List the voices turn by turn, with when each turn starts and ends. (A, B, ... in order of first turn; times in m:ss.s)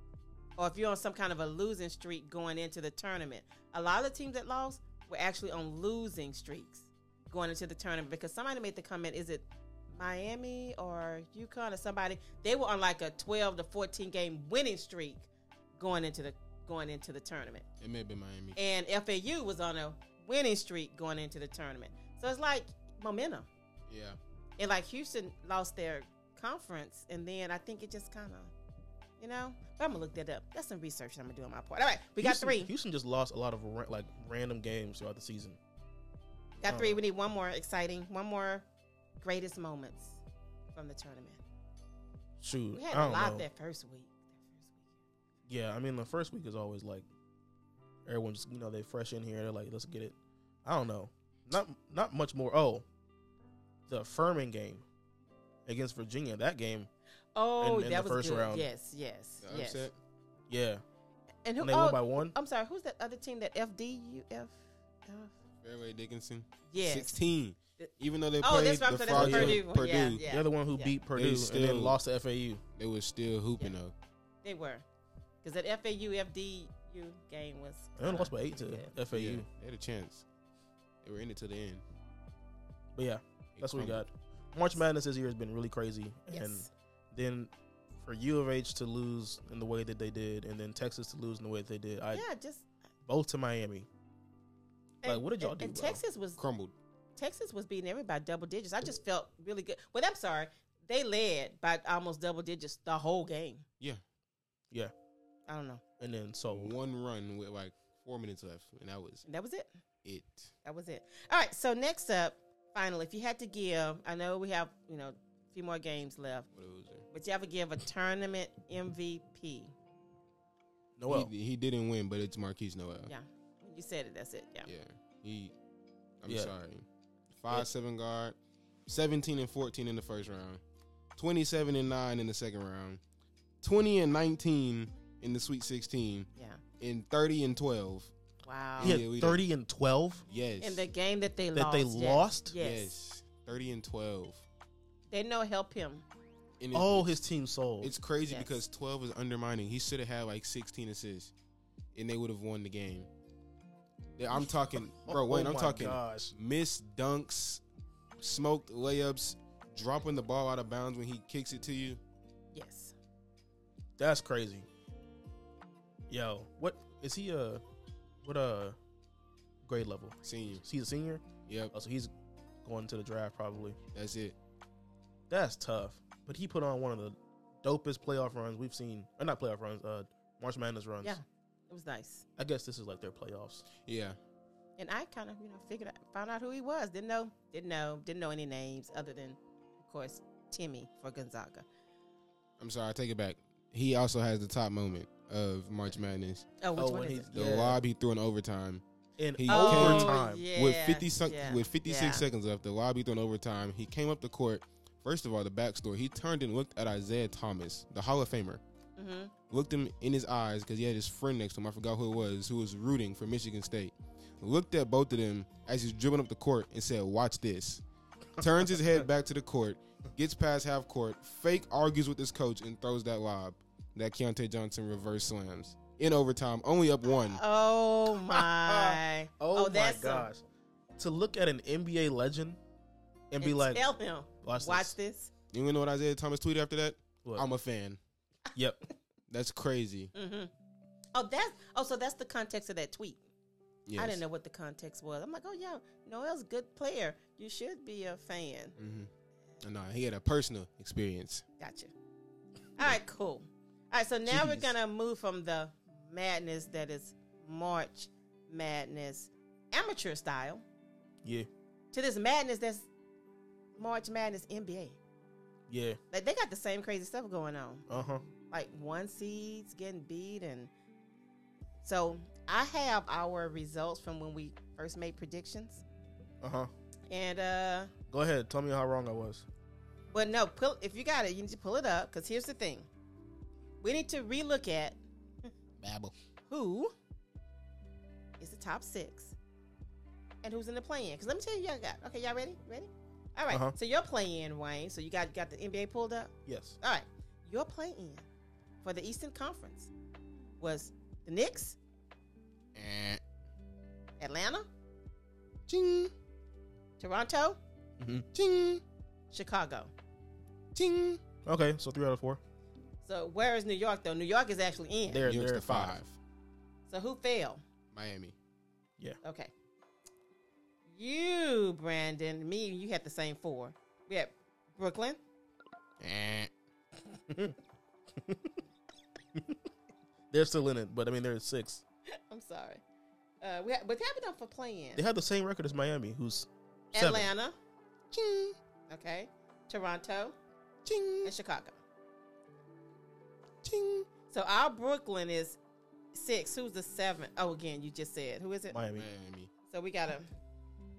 0:00.6-0:17.6 A
0:17.8-0:18.6 B
0:18.6-0:23.5 A
0:23.9-0:24.2 B
0:24.6-0:28.5 A
0:29.2-0:32.7 A
0:32.2-0:35.6 C
0:36.6-0:37.0 C
0:36.6-0:38.6 A
0:39.2-0:40.2 A
0:40.8-0:41.4 A
0:42.4-0:43.5 C
0:42.7-0:44.8 A
0:45.5-0:47.1 C
0:48.1-0:52.8 C
0:53.9-0:54.8 C
0:55.7-0:56.9 C
0:57.4-0:59.9 A
0:57.6-0:58.7 C
0:59.4-1:00.0 B
1:00.5-1:00.8 C
1:01.4-1:05.4 A
1:01.6-1:02.4 C
1:05.6-1:10.2 B
1:06.7-1:07.2 A
1:07.8-1:11.0 A
1:09.1-1:09.7 C
1:10.2-1:12.6 C
1:11.2-1:12.0 B
1:12.7-1:13.9 B
1:14.4-1:14.8 A
1:15.4-1:18.9 A
1:18.0-1:19.5 C
1:19.1-1:20.2 B
1:21.0-1:21.8 B
1:23.0-1:32.2 C
1:23.6-1:24.0 B
1:26.3-1:26.7 A
1:32.1-1:32.7 A
1:33.1-1:33.9 C
1:35.0-1:36.4 A
1:35.0-1:36.0 C
1:36.4-1:36.8 B
1:37.2-1:43.6 A
1:45.5-1:45.8 A
1:46.0-1:46.7 C
1:46.5-1:49.2 B
1:49.2-1:49.7 A
1:50.0-1:50.5 B
1:50.6-1:56.5 A
1:56.5-1:57.1 B
1:57.1-1:59.7 A
2:01.0-2:01.3 C
2:01.1-2:03.1 B
2:03.1-2:04.7 A
2:04.6-2:05.6 B
2:06.2-2:06.9 B
2:07.4-2:10.6 B
2:11.2-2:13.0 B
2:13.6-2:16.3 B
2:16.4-2:16.6 A
2:16.8-2:18.1 B
2:18.4-2:19.0 A
2:18.8-2:19.4 B
2:18.8-2:20.2 C
2:20.3-2:20.9 B
2:20.6-2:22.9 A
2:21.6-2:22.5 C
2:22.6-2:24.4 B
2:25.1-2:26.0 A
2:26.6-2:27.2 B
2:26.7-2:27.9 C
2:27.8-2:31.3 B
2:28.3-2:28.6 A
2:31.9-2:33.1 B
2:34.2-2:37.6 B
2:35.0-2:36.3 C
2:38.2-2:42.0 B
2:42.5-2:42.9 A
2:44.0-2:44.7 C
2:46.1-2:47.6 C
2:48.2-2:48.8 C
2:49.6-2:52.1 C
2:50.2-2:50.6 B
2:51.5-2:51.7 B
2:52.6-2:53.8 C
2:53.9-2:54.4 B
2:55.3-3:01.2 C
3:01.0-3:02.2 A
3:02.4-3:03.7 C
3:03.8-3:04.2 B
3:04.8-3:11.7 A
3:12.6-3:16.5 B
3:16.6-3:17.4 A
3:16.8-3:17.8 C
3:17.3-3:18.8 B
3:19.2-3:20.5 C
3:19.4-3:28.6 B
3:19.5-3:22.3 A
3:29.0-3:29.3 A
3:29.5-3:37.8 B
3:38.4-3:47.4 B
3:47.1-3:50.3 A
3:48.3-3:50.4 C
3:51.0-3:52.6 C
3:53.3-3:53.8 C
3:53.4-3:55.3 A
3:54.4-3:54.9 C
3:55.5-3:58.0 B
3:58.6-3:58.8 C
3:59.3-4:00.1 B
4:00.2-4:00.5 A
4:01.1-4:03.2 A
4:03.9-4:04.2 B
4:04.0-4:08.8 A
4:08.8-4:11.5 B
4:11.6-4:11.9 A
4:12.8-4:20.6 A
4:14.3-4:14.7 C
4:21.9-4:22.9 A
4:23.8-4:25.0 A
4:25.7-4:26.0 C
4:26.1-4:27.8 A
4:27.9-4:28.2 C
4:28.5-4:30.7 A
4:31.8-4:35.8 A
4:36.4-4:36.7 C
4:37.1-4:37.9 A
4:38.1-4:39.4 C
4:40.1-4:42.9 A
4:43.8-4:45.5 A
4:45.8-4:46.1 B
4:46.5-4:46.9 A
4:48.4-4:49.4 A
4:50.4-4:58.2 A
4:53.5-4:53.8 C
4:56.5-4:56.8 C
4:58.8-4:59.9 A
5:00.6-5:01.8 A
5:02.8-5:03.2 B
5:04.2-5:04.7 A
5:05.7-5:06.1 B
5:07.0-5:07.6 A
5:08.0-5:08.3 C
5:08.3-5:08.8 B
5:09.3-5:09.9 A
5:10.8-5:11.2 B
5:11.5-5:12.4 C
5:13.0-5:15.3 A
5:15.1-5:16.0 C
5:15.2-5:16.2 B
5:16.9-5:17.6 A
5:17.9-5:18.4 B
5:19.2-5:19.5 A
5:20.9-5:25.2 A
5:26.0-5:26.5 B
5:27.3-5:27.6 C
5:28.2-5:28.6 C
5:30.3-5:31.8 C
5:32.1-5:32.8 A
5:33.4-5:35.0 A
5:35.0-5:37.3 C
5:36.9-5:37.6 A
5:38.1-5:38.6 B
5:38.9-5:40.4 A
5:40.8-5:41.3 B
5:41.2-5:41.8 A
5:43.6-5:44.1 B
5:44.3-5:45.6 A
5:46.1-5:48.8 A
5:48.7-5:49.1 C
5:48.9-5:49.5 B
5:49.7-5:50.3 A